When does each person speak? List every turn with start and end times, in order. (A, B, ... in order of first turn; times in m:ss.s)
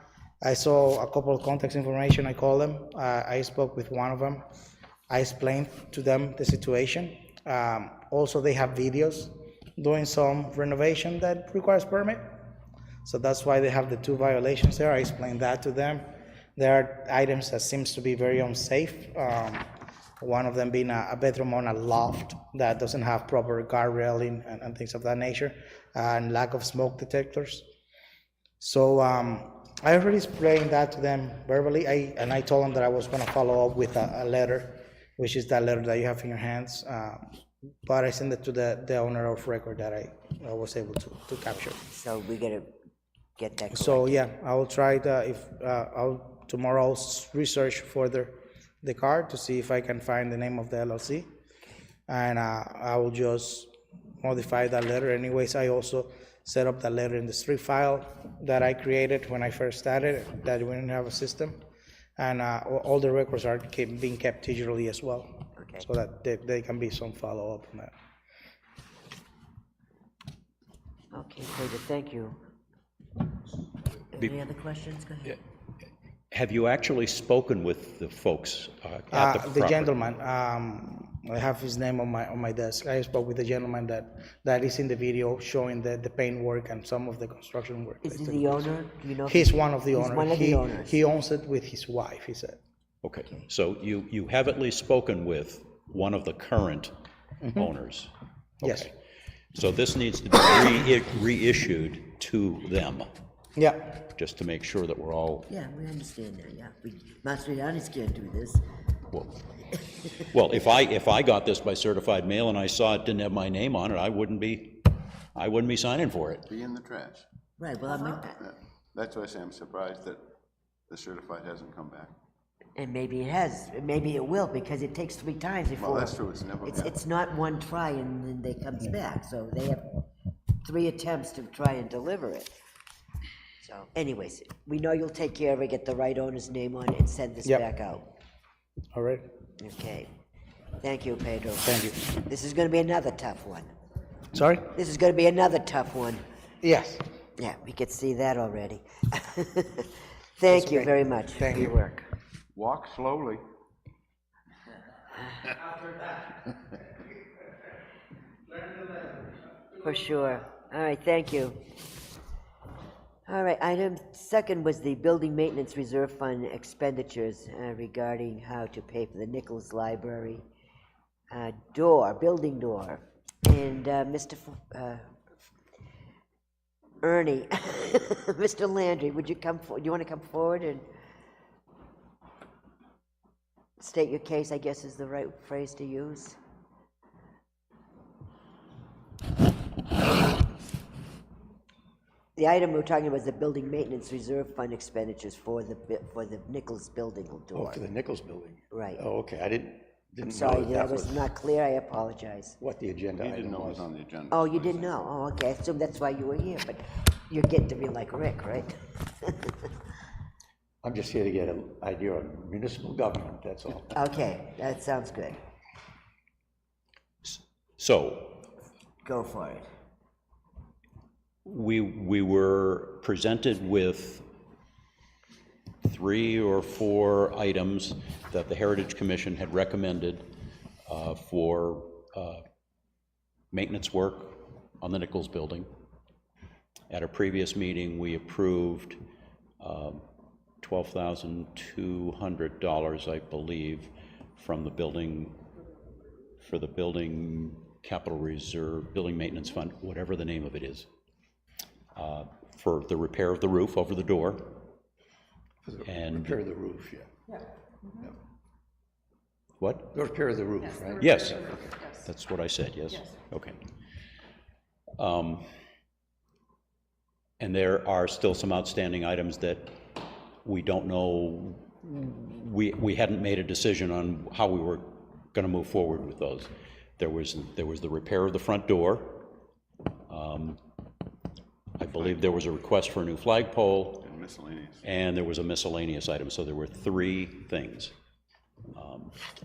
0:00.4-0:04.4 A
0:05.1-0:12.2 A
0:13.0-0:19.7 A
0:20.2-0:27.6 A
0:28.6-0:41.8 A
0:41.9-0:42.7 B
0:43.4-0:44.2 B
0:43.7-0:51.3 A
0:52.1-0:53.7 A
0:54.2-1:01.6 A
1:02.2-1:07.9 A
1:11.1-1:12.4 B
1:14.1-1:15.4 B
1:16.3-1:19.9 C
1:19.1-1:28.7 A
1:28.0-1:31.0 B
1:29.2-1:32.6 A
1:33.0-1:36.9 C
1:37.4-1:37.7 A
1:37.5-1:38.9 C
1:38.6-1:38.9 A
1:39.5-1:43.1 C
1:43.6-1:43.9 A
1:44.0-1:45.5 C
1:45.5-1:48.6 B
1:49.1-1:49.4 C
1:50.1-1:56.5 C
1:56.4-1:57.2 D
1:57.6-1:58.4 B
1:57.9-2:00.3 D
2:00.9-2:02.1 D
2:02.8-2:10.0 B
2:05.7-2:07.0 D
2:10.6-2:12.5 B
2:13.6-2:18.0 B
2:18.9-2:19.2 A
2:19.6-2:20.1 B
2:20.8-2:23.7 B
2:21.6-2:22.0 A
2:24.3-2:24.7 A
2:24.6-2:26.2 B
2:26.6-2:27.0 A
2:27.4-2:32.0 B
2:30.5-2:31.8 A
2:32.5-2:33.4 D
2:39.8-2:41.6 B
2:43.3-2:50.4 B
2:51.3-2:55.0 B
2:57.0-3:00.8 B
3:03.8-3:06.4 B
3:12.4-3:17.8 B
3:17.5-3:21.3 E
3:18.7-3:19.0 B
3:20.3-3:22.6 B
3:22.6-3:23.9 E
3:23.2-3:25.0 D
3:24.3-3:29.7 B
3:30.8-3:34.0 E
3:33.9-3:35.4 B
3:37.2-3:38.5 C
3:39.0-3:39.6 B
3:41.4-3:44.2 C
3:45.8-3:50.3 C
3:50.9-3:52.4 C
3:53.5-3:55.7 C
3:56.9-3:59.0 C
3:59.6-4:00.0 C
4:00.6-4:05.4 C
4:06.4-4:10.9 C
4:11.9-4:14.7 C
4:15.6-4:17.1 E
4:15.8-4:16.4 C
4:19.6-4:19.9 C
4:19.9-4:21.7 E
4:21.0-4:23.6 C
4:25.0-4:25.5 C
4:27.4-4:29.9 C
4:30.4-4:39.3 C
4:40.1-4:40.6 C
4:41.8-4:44.0 C
4:41.9-4:42.3 D
4:44.0-4:44.9 D
4:44.8-4:47.9 C
4:48.7-4:49.1 C